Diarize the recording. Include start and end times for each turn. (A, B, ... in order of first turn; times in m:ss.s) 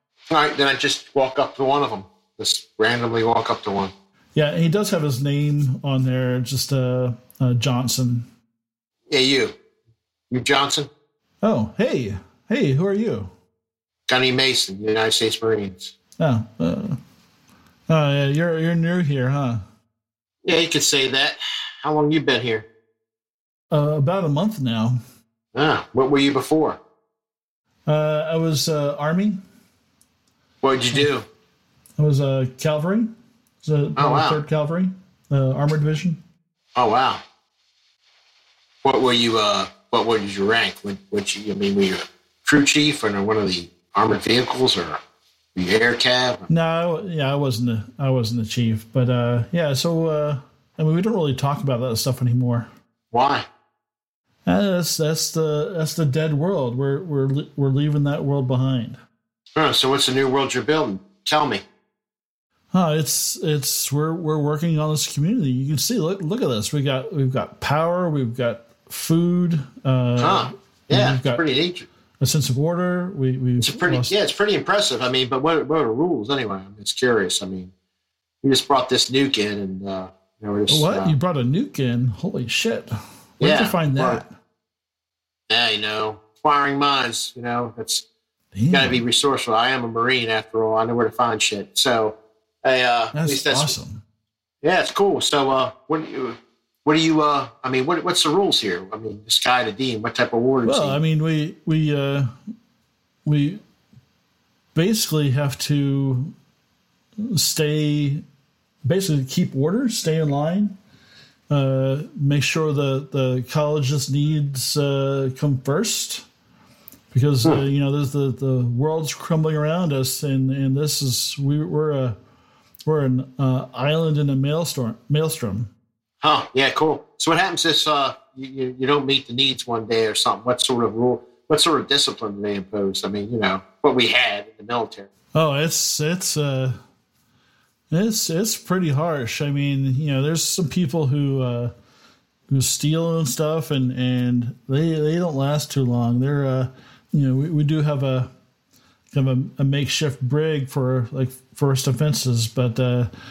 0:00.3-0:03.9 A
0:04.3-0:08.3 B
0:09.1-0:09.6 A
0:10.3-0:10.9 A
0:11.4-0:13.3 B
0:14.1-0:15.9 A
0:16.2-0:17.0 B
0:17.9-0:19.6 B
0:20.4-0:22.6 A
0:23.7-0:25.0 B
0:25.6-0:26.8 A
0:27.9-0:29.4 B
0:30.6-0:31.2 A
0:32.0-0:33.1 B
0:33.6-0:36.2 B
0:34.0-0:34.4 A
0:36.8-0:37.2 A
0:38.8-0:45.0 A
0:45.6-0:46.5 A
0:46.5-0:52.7 B
0:53.1-0:53.4 A
0:54.4-0:59.0 B
0:59.6-1:01.6 A
1:02.7-1:11.4 B
1:10.2-1:11.9 A
1:12.2-1:14.1 B
1:13.6-1:17.7 A
1:18.4-1:21.1 A
1:20.7-1:24.3 B
1:23.4-1:24.2 A
1:25.5-1:28.0 A
1:28.6-1:29.0 B
1:28.7-1:33.7 A
1:33.1-1:34.0 B
1:34.6-1:41.0 A
1:40.6-1:42.4 B
1:43.2-1:43.6 B
1:44.7-1:46.3 B
1:47.2-1:48.2 B
1:48.8-1:50.8 B
1:51.5-1:56.3 B
1:57.1-2:02.2 B
2:02.8-2:05.7 B
2:06.2-2:15.1 A
2:15.3-2:16.8 B
2:17.9-2:21.7 B
2:22.5-2:28.3 B
2:29.1-2:33.1 B